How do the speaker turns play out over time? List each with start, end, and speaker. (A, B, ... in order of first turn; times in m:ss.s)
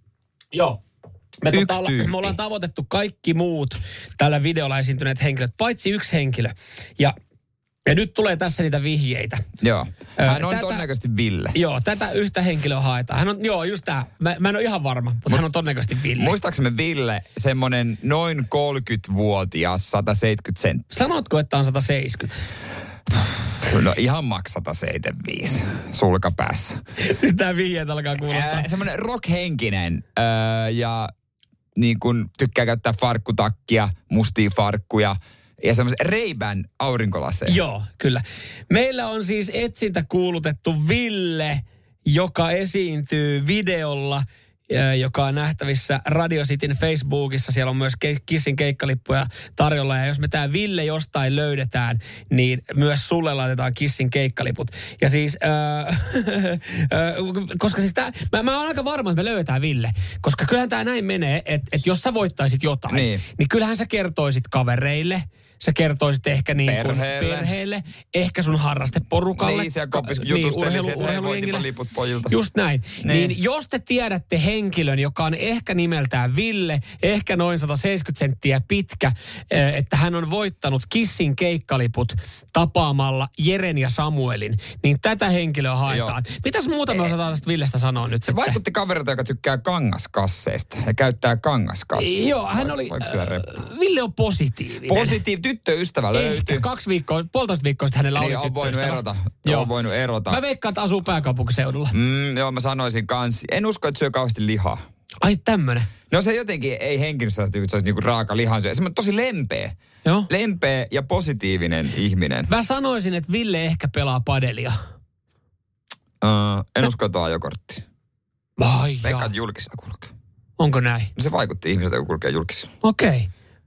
0:00.5-0:00.8 A
0:01.4-0:07.1 A
0:01.5-0:02.4 B
0:07.8-0:09.4 A
0:09.6-0:11.6 B
0:10.2-0:10.8 A
0:11.5-0:16.3 A
0:16.2-0:20.9 B
0:20.9-0:22.4 A
0:23.6-0:26.8 B
0:27.0-0:28.7 A
0:28.2-0:31.1 B
0:31.8-0:37.6 B
0:37.4-1:11.7 A
1:02.9-1:03.2 B
1:06.6-1:07.5 B
1:09.3-1:12.3 B
1:12.3-1:28.6 A
1:13.0-1:13.4 B
1:25.9-1:26.2 B
1:28.2-1:33.4 B
1:32.0-1:35.2 A
1:34.8-1:36.7 B
1:36.1-1:39.7 A
1:38.2-1:40.4 B
1:40.3-1:41.9 A
1:41.9-1:44.8 B
1:45.2-1:45.9 A
1:46.1-1:49.7 B
1:50.0-1:50.3 A
1:50.3-1:52.5 B
1:52.5-1:54.8 A
1:56.2-1:57.8 B
1:58.6-1:59.3 A
1:59.0-2:00.1 B
2:00.6-2:01.1 A
2:01.2-2:02.7 B
2:02.8-2:03.3 A